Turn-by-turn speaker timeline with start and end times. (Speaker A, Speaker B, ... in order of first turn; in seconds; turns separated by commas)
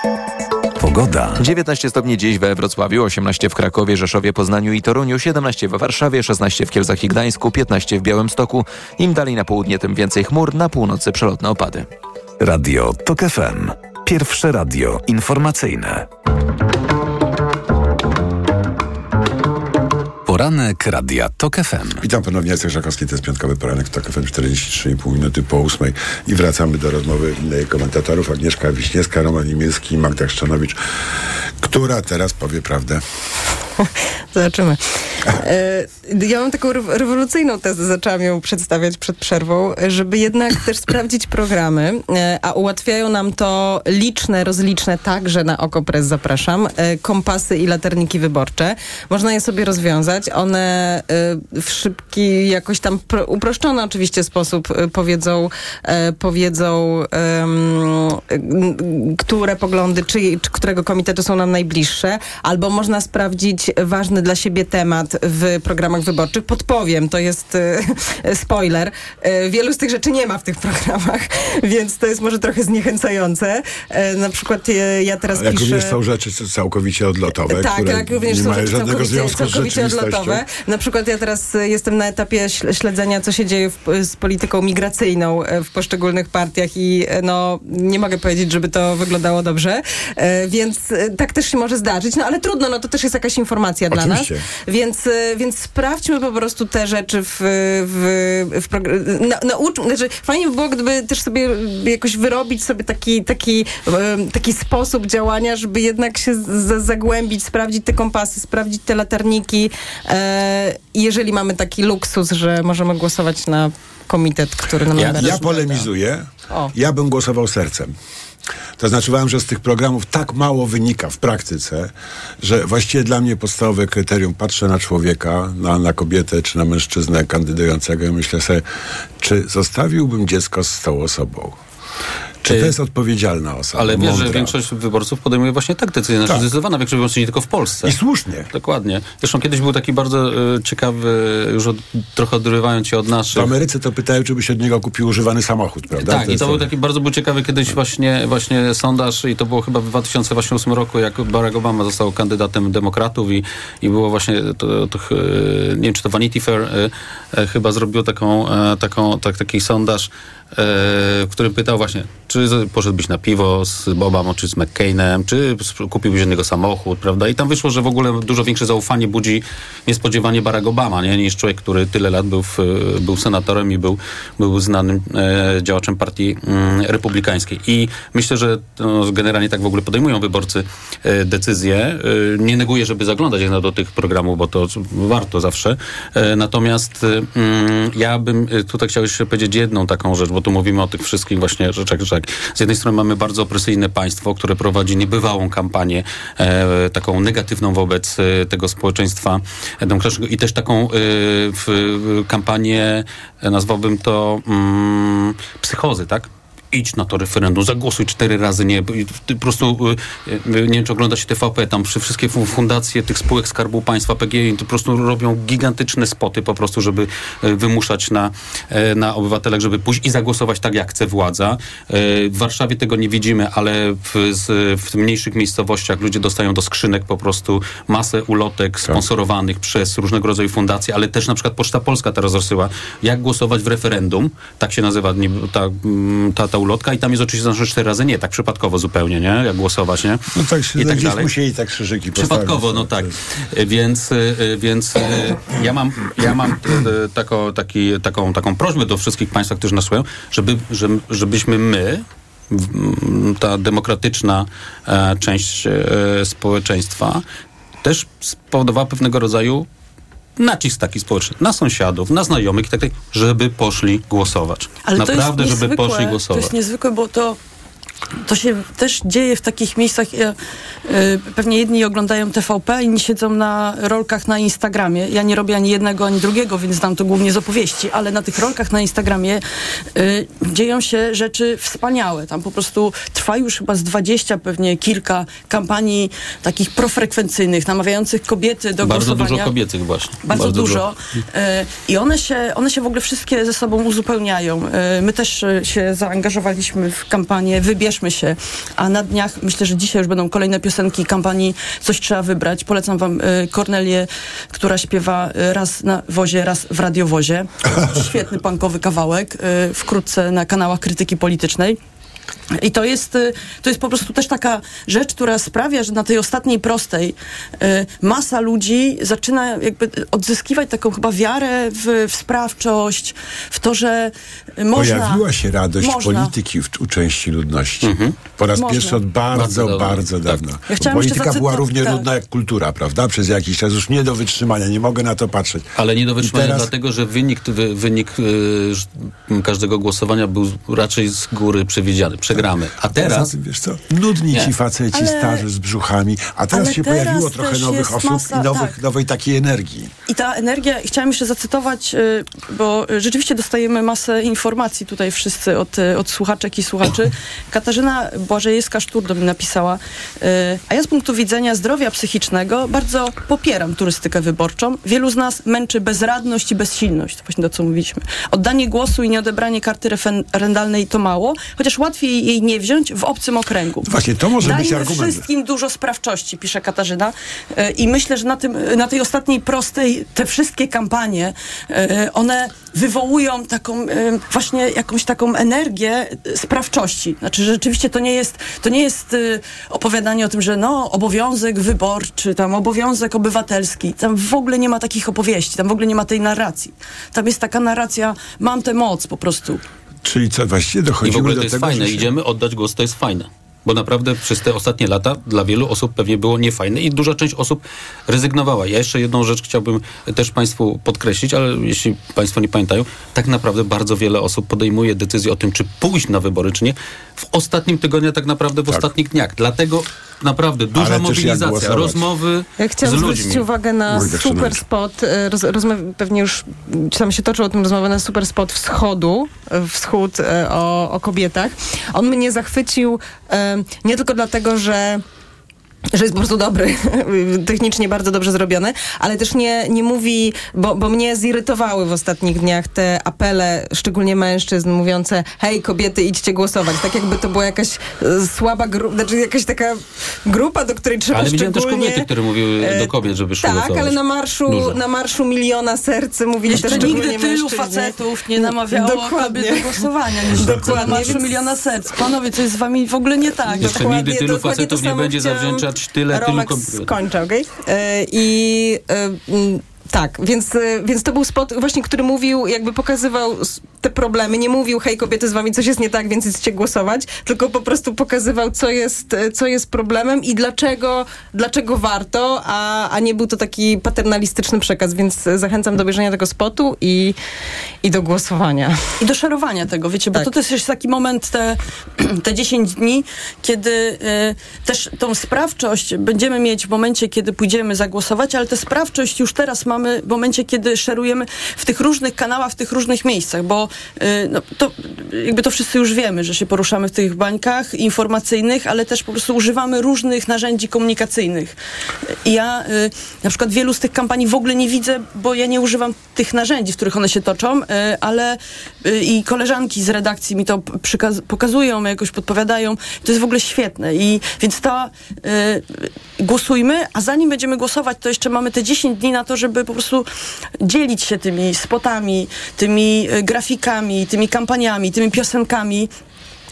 Speaker A: 0.8-1.4, Speaker B: 1.4-11.9, Speaker A: 12.4-16.1, Speaker A: 20.3-22.0, Speaker C: 22.0-30.8, Speaker C: 31.6-33.0, Speaker D: 33.8-34.8, Speaker D: 35.3-76.0, Speaker C: 75.3-80.4, Speaker D: 77.5-115.6, Speaker C: 93.9-94.4, Speaker E: 114.9-115.9, Speaker C: 115.1-117.9, Speaker C: 118.8-128.6, Speaker C: 129.2-131.6, Speaker C: 132.4-134.6, Speaker E: 132.5-132.7, Speaker E: 133.7-137.9, Speaker C: 136.3-136.5, Speaker C: 137.8-138.5, Speaker E: 138.5-143.5, Speaker C: 143.3-146.7, Speaker E: 146.0-240.2, Speaker C: 240.3-243.1, Speaker E: 240.8-241.3, Speaker E: 242.1-257.2, Speaker E: 257.8-259.6, Speaker E: 260.4-266.5, Speaker F: 264.8-267.4, Speaker F: 268.2-279.4, Speaker F: 279.9-289.5, Speaker E: 288.8-290.9, Speaker F: 290.2-311.8, Speaker F: 312.6-325.2, Speaker C: 324.7-335.7, Speaker F: 325.8-326.3, Speaker E: 327.8-328.1, Speaker F: 328.6-329.0, Speaker E: 329.3-330.4, Speaker F: 330.7-332.1, Speaker E: 335.8-343.3, Speaker C: 336.2-336.7, Speaker C: 342.4-349.9, Speaker F: 344.9-345.4, Speaker F: 346.5-348.8, Speaker F: 350.1-373.9, Speaker C: 373.8-375.2, Speaker F: 374.4-399.6, Speaker C: 400.0-402.1, Speaker E: 401.0-423.4, Speaker C: 420.7-422.0, Speaker D: 422.6-435.0, Speaker C: 423.9-424.6, Speaker D: 435.9-452.1, Speaker E: 451.1-454.8, Speaker D: 452.6-452.9, Speaker D: 453.4-461.3, Speaker F: 456.5-463.8, Speaker E: 456.5-456.9, Speaker E: 463.6-466.9, Speaker D: 463.6-487.1, Speaker D: 487.8-488.8, Speaker F: 489.0-511.6, Speaker F: 512.2-530.1, Speaker F: 530.6-535.9